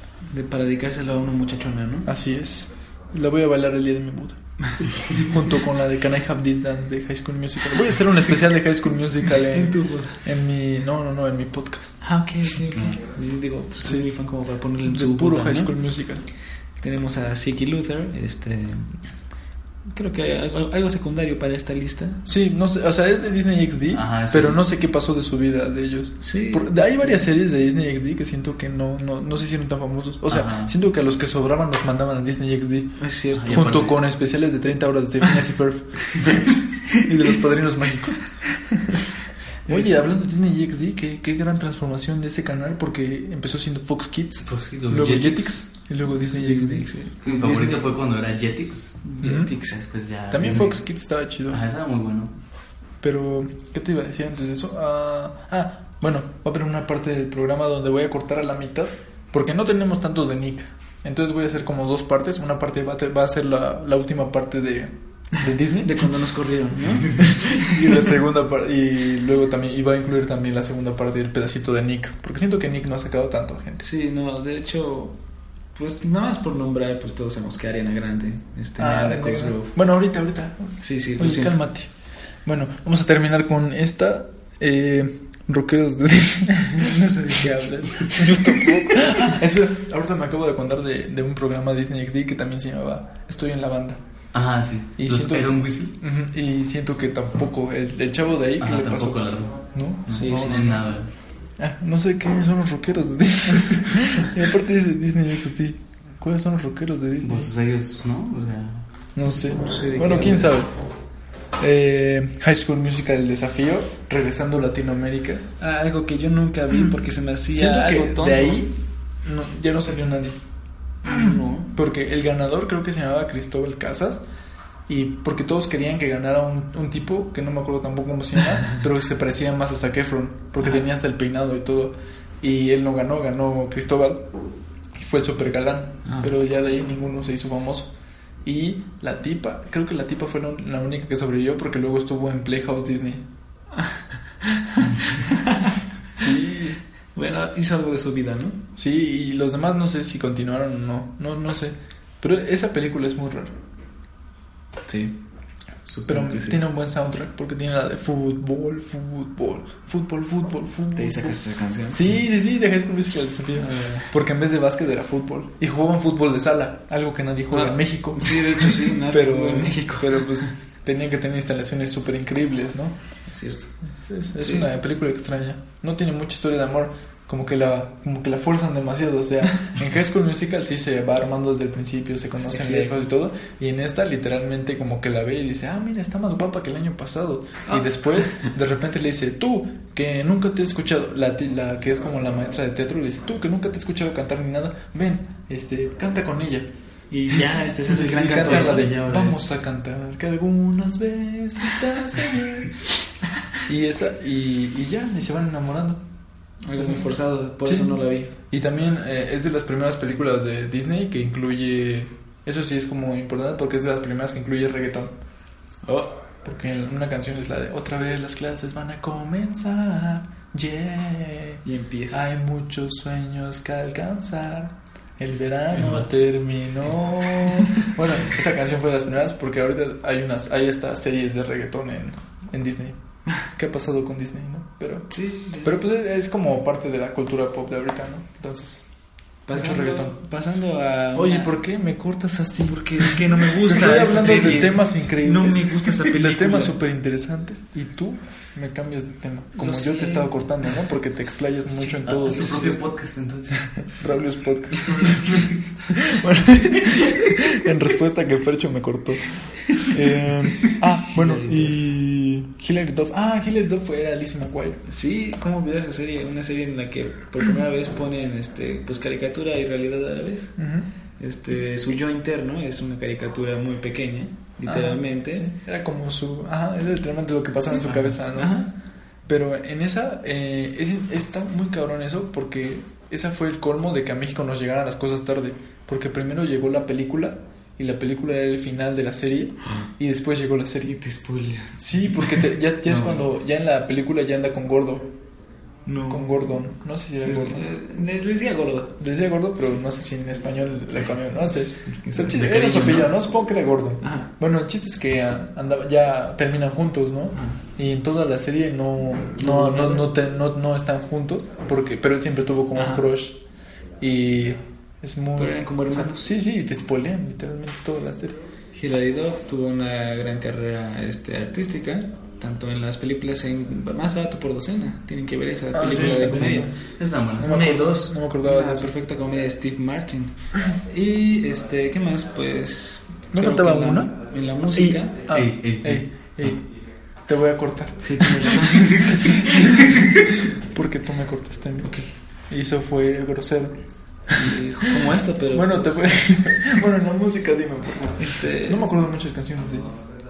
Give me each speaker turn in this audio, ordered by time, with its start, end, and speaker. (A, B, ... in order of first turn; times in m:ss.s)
0:00.3-0:02.1 A
0:02.1-0:12.0 B
0:09.5-0:10.2 A
0:12.0-0:15.7 A
0:13.8-0:14.1 B
0:14.8-0:16.2 B
0:16.8-0:19.0 A
0:19.9-0:22.2 A
0:22.3-0:38.4 B
0:23.9-0:24.6 C
0:26.2-0:27.3 A
0:30.3-0:30.7 C
0:33.0-0:33.7 A
0:33.3-0:34.0 C
0:39.7-0:40.0 A
0:39.7-0:46.9 B
0:44.4-0:45.6 C
0:46.2-0:47.9 A
0:47.2-0:49.1 C
0:49.0-0:49.8 A
0:49.2-0:49.5 B
0:49.7-0:50.9 C
0:50.3-0:51.6 B
0:51.5-0:52.3 C
0:53.0-1:06.1 B
1:05.8-1:08.0 A
1:07.2-1:13.8 B
1:13.8-1:15.2 A
1:15.7-1:19.7 A
1:18.8-1:21.9 B
1:20.8-1:21.6 A
1:22.4-1:34.0 B
1:26.8-1:28.6 A
1:34.3-1:35.9 C
1:35.0-1:40.7 B
1:38.6-1:41.1 C
1:40.1-1:40.8 A
1:41.6-1:47.5 B
1:47.2-1:48.9 C
1:49.2-1:50.7 B
1:49.5-1:50.5 A
1:51.6-1:55.4 B
1:55.6-1:58.6 A
1:57.5-2:00.4 B
2:01.0-2:01.7 A
2:01.0-2:04.2 B
2:04.9-2:14.3 B
2:10.6-2:10.9 A
2:15.0-2:17.9 B
2:16.0-2:16.3 A
2:18.4-2:23.2 B
2:23.8-2:25.8 A
2:26.1-2:26.8 B
2:27.2-2:28.6 A
2:28.8-2:33.5 B
2:34.9-2:35.2 A
2:35.9-2:36.6 A
2:36.1-2:53.0 B
2:41.0-2:42.2 A
2:43.6-2:44.1 A
2:47.5-2:50.5 A
2:53.3-2:53.7 A
2:54.0-3:16.7 B
2:54.4-2:54.7 A
3:02.4-3:03.0 A
3:07.7-3:08.5 A
3:17.1-3:18.9 A
3:17.3-3:22.8 B
3:17.9-3:19.4 C
3:23.7-3:26.0 B
3:26.6-3:28.3 A
3:26.8-3:27.1 B
3:27.6-3:35.2 B
3:35.8-3:36.2 A
3:36.4-3:58.8 B
3:41.6-3:42.2 A
3:45.7-3:46.1 C
3:55.1-3:55.7 A
3:59.5-4:01.5 A
3:59.5-4:00.2 B
4:01.1-4:12.9 B
4:02.7-4:06.8 A
4:09.6-4:10.4 A
4:11.7-4:12.8 A
4:12.0-4:14.0 C
4:13.8-4:24.8 B
4:14.7-4:15.8 C
4:20.6-4:21.8 A
4:24.9-4:30.6 A
4:30.6-4:30.9 B
4:31.2-4:35.5 A
4:34.7-4:38.7 B
4:37.7-4:38.7 A
4:39.3-4:51.0 B
4:50.8-4:52.4 A
4:51.8-4:55.1 B
4:52.9-4:53.3 C
4:55.9-4:56.5 A
4:56.1-4:57.7 B
4:57.2-4:58.9 A
4:59.0-5:13.4 B
5:01.8-5:02.3 A
5:02.2-5:03.1 C
5:04.0-5:04.3 A
5:07.3-5:07.6 A
5:09.4-5:10.1 A
5:12.8-5:13.1 A
5:14.0-5:18.4 B
5:15.4-5:16.3 A
5:18.7-5:26.7 A
5:25.7-5:26.8 B
5:26.3-5:27.6 C
5:27.4-5:29.0 B
5:27.4-5:35.2 A
5:33.3-5:36.7 B
5:35.3-5:36.6 C
5:37.2-5:39.6 B
5:38.0-5:39.8 A
5:40.6-5:44.6 B
5:41.8-5:42.1 A
5:44.4-5:46.4 A
5:45.5-5:50.0 B
5:48.2-5:48.8 A